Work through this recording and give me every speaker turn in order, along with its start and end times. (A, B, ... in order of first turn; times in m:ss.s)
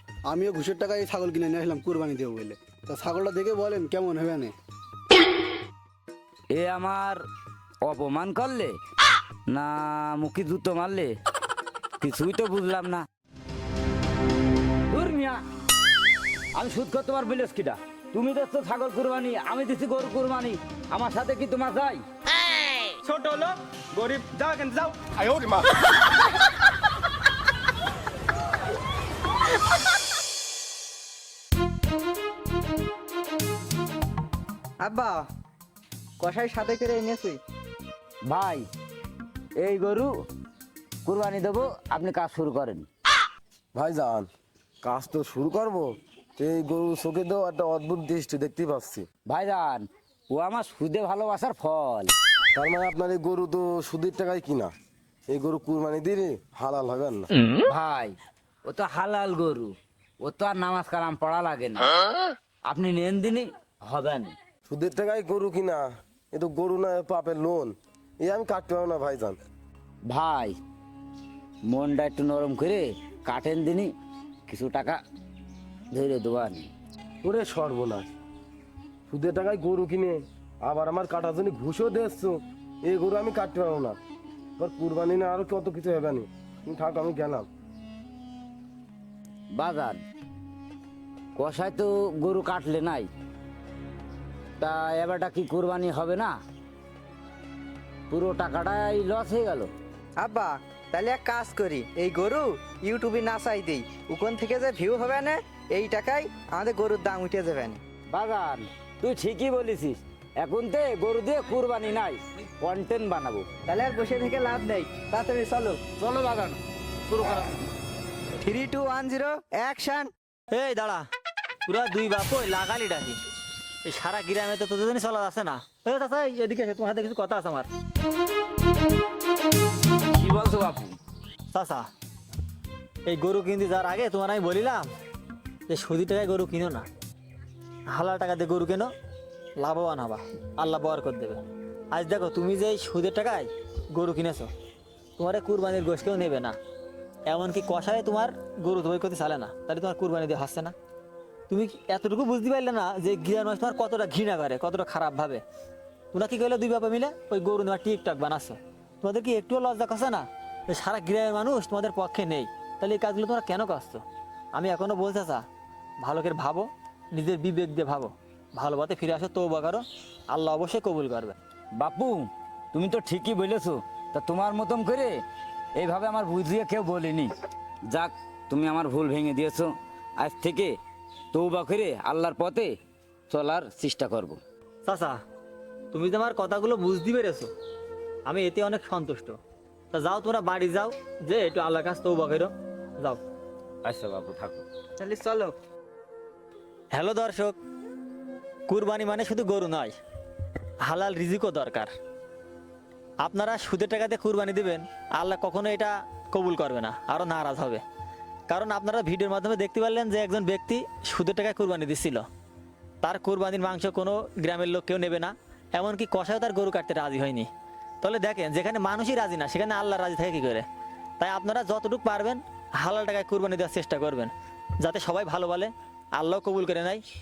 0:00.3-0:04.5 A
0:06.5-0:07.2 B
0:07.8-0:08.8 B
0:09.5-0:11.1 B
0:12.0-0:13.0 B
0:14.9-0:15.4 B
0:16.5-0:22.0 B
0:23.0-0:25.6 C
0:34.8-0:35.2 D
0:36.2-0:37.4 D
0:38.3-0:38.6 B
0:39.6-0:40.1 B
0:41.0-0:42.8 B
0:43.7-0:44.3 E
0:44.8-0:49.0 E
0:49.3-0:52.1 B
0:52.5-0:54.7 E
0:55.3-0:57.3 E
0:57.6-1:01.9 B
1:02.7-1:04.3 B
1:04.6-1:09.4 E
1:10.0-1:10.6 B
1:11.6-1:13.9 B
1:14.5-1:15.0 B
1:15.9-1:16.7 B
1:17.2-1:18.1 E
1:19.1-1:24.0 E
1:24.6-1:27.5 E
1:29.5-1:30.0 B
1:31.4-1:33.1 B
1:34.6-1:36.3 B
1:38.1-1:39.7 B
1:40.2-1:47.8 D
1:48.1-1:53.4 B
1:53.7-1:55.8 D
1:56.0-1:57.5 B
1:58.4-2:00.1 D
2:00.5-2:01.1 F
2:01.6-2:03.2 F
2:03.8-2:07.7 F
2:10.1-2:11.0 B
2:11.5-2:11.9 F
2:13.1-2:14.9 F
2:15.7-2:16.9 F
2:17.9-2:18.9 F
2:19.6-2:21.4 F
2:21.9-2:24.5 F
2:25.2-2:26.6 F
2:27.3-2:30.7 F
2:31.5-2:35.4 F
2:36.1-2:44.0 F
2:44.6-2:45.4 F
2:46.0-2:51.4 F
2:51.8-2:55.2 B
2:55.8-2:57.3 B
2:57.9-3:00.8 B
3:01.3-3:02.7 B
3:03.3-3:04.4 B
3:04.8-3:05.2 F
3:05.9-3:07.5 F
3:08.2-3:09.4 F
3:09.9-3:13.2 F
3:13.8-3:14.6 B
3:15.0-3:15.5 D
3:16.9-3:17.6 F
3:18.7-3:20.0 F
3:20.8-3:21.9 F
3:23.2-3:27.8 F
3:28.5-3:32.2 F
3:33.0-3:37.5 F
3:38.0-3:40.6 F
3:41.2-3:47.0 F